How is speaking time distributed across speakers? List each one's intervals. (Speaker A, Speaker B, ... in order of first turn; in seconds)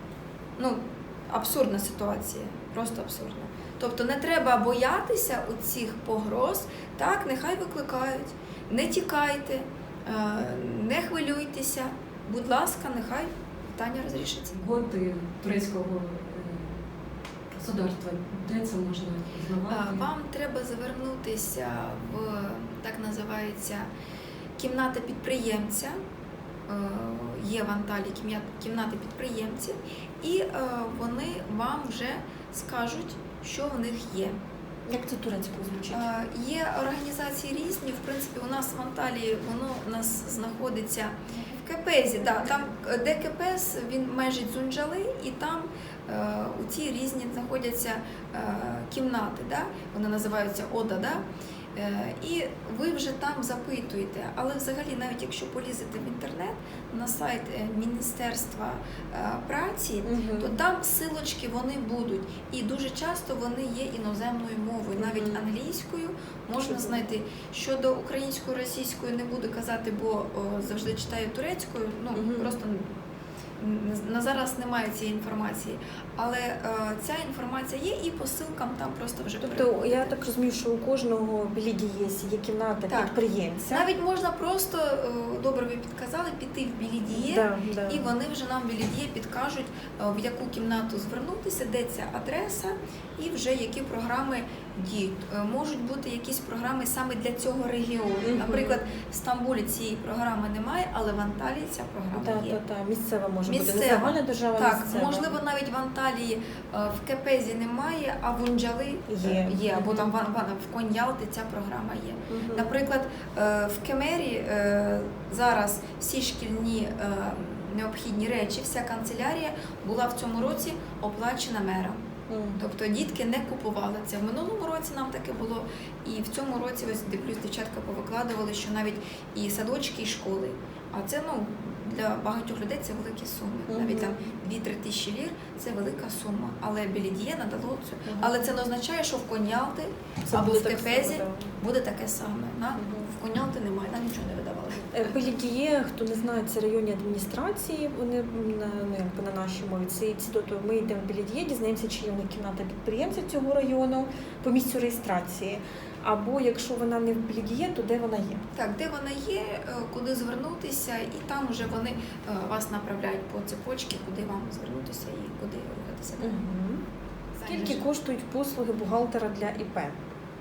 Speaker A: 0.6-14.6, 19.7-23.9, 24.6-26.0, 26.7-34.4, 35.9-51.2, 51.7-72.9, 73.6-80.1, 82.9-83.1, 83.7-102.6, 103.5-122.0, 122.6-145.3, 158.5-166.4, 167.4-167.9
Speaker B: 14.5-16.7, 17.5-20.1
Speaker C: 34.9-36.0, 41.3-41.6, 60.0-60.5, 65.0-65.4, 66.6-67.0, 72.1-72.5, 79.4-83.9, 87.1-88.1, 98.2-98.7, 102.2-105.3, 109.1-110.1, 112.3-112.7, 122.3-122.6, 133.7-134.2, 138.1-138.4, 140.2-141.5, 142.8-143.1, 144.9-158.4, 166.2-166.8, 167.5-170.0